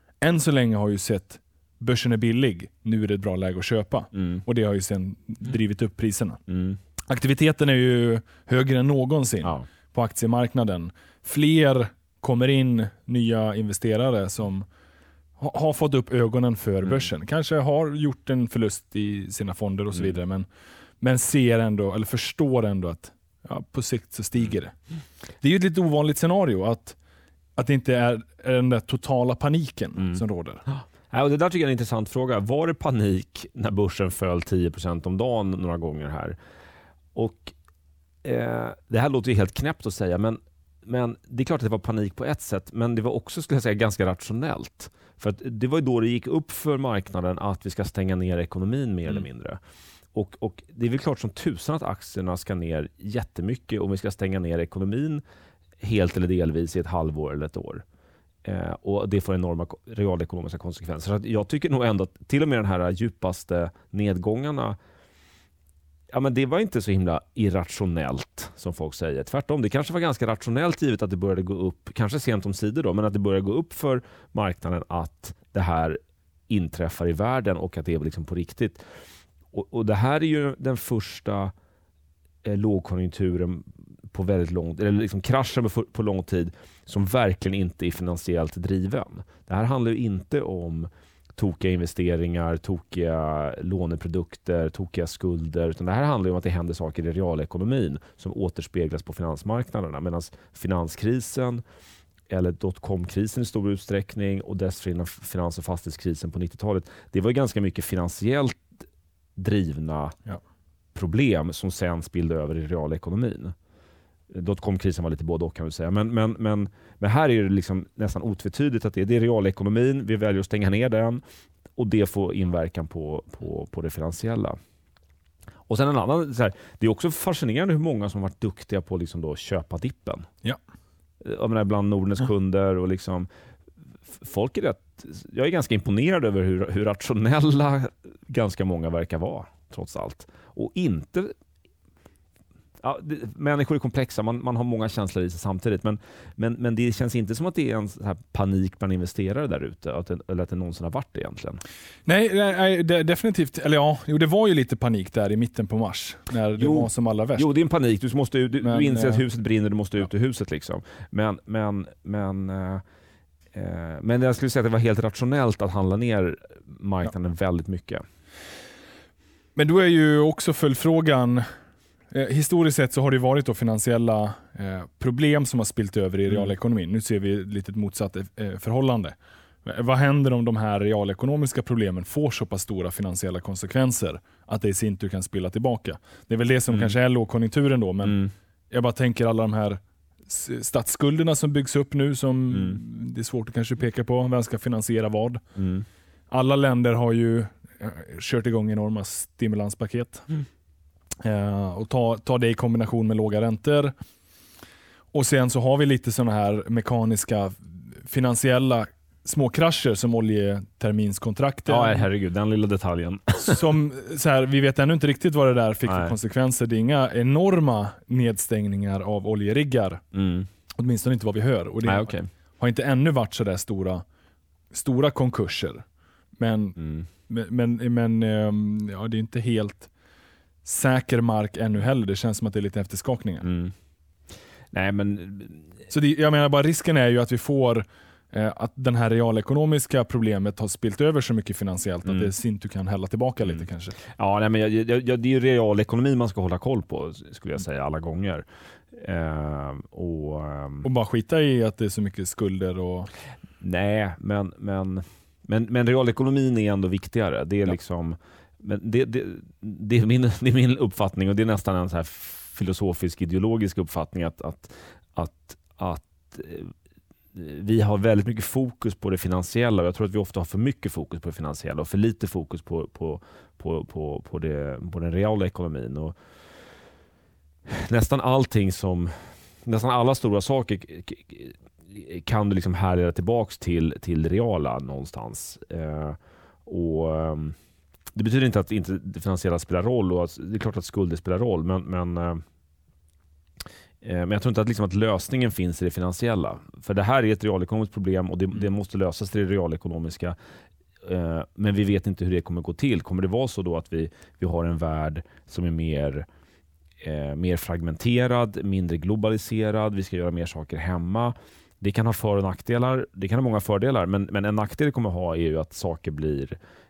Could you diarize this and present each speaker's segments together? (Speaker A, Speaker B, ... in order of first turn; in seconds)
Speaker A: 0.2-6.4, 7.1-14.7, 15.4-20.5, 21.0-24.7, 25.4-27.0, 27.6-30.6, 152.1-157.5, 158.6-159.2, 169.6-171.5, 172.1-188.2, 188.7-195.4, 196.3-200.3, 201.2-203.9, 205.1-212.0, 213.4-220.0, 220.8-224.0, 224.7-225.8, 226.4-229.9, 230.6-233.5, 235.9-244.0, 250.8-253.1
Speaker B: 4.2-4.4, 6.5-6.8, 30.1-36.4, 37.1-37.5, 38.2-49.6, 50.1-55.2, 55.8-57.8, 58.4-64.8, 66.1-76.0, 76.5-78.8, 79.5-81.5, 82.4-101.6, 102.3-108.7, 109.4-110.2, 110.9-113.5, 114.3-121.2, 121.8-124.6, 125.7-130.3, 131.2-133.3, 134.1-141.3, 142.8-151.6, 156.6-162.8, 163.5-168.0, 188.0-188.3, 192.5-192.8, 195.6-195.8, 211.7-213.7, 215.8-216.1, 220.1-220.5, 221.8-222.3, 226.8-227.1, 233.4-233.7, 234.7-235.7, 242.1-242.3, 243.4-250.8, 253.6-266.7, 267.3-276.1, 277.7-287.6, 288.1-292.4, 294.0-300.4, 301.0-306.3, 307.0-316.6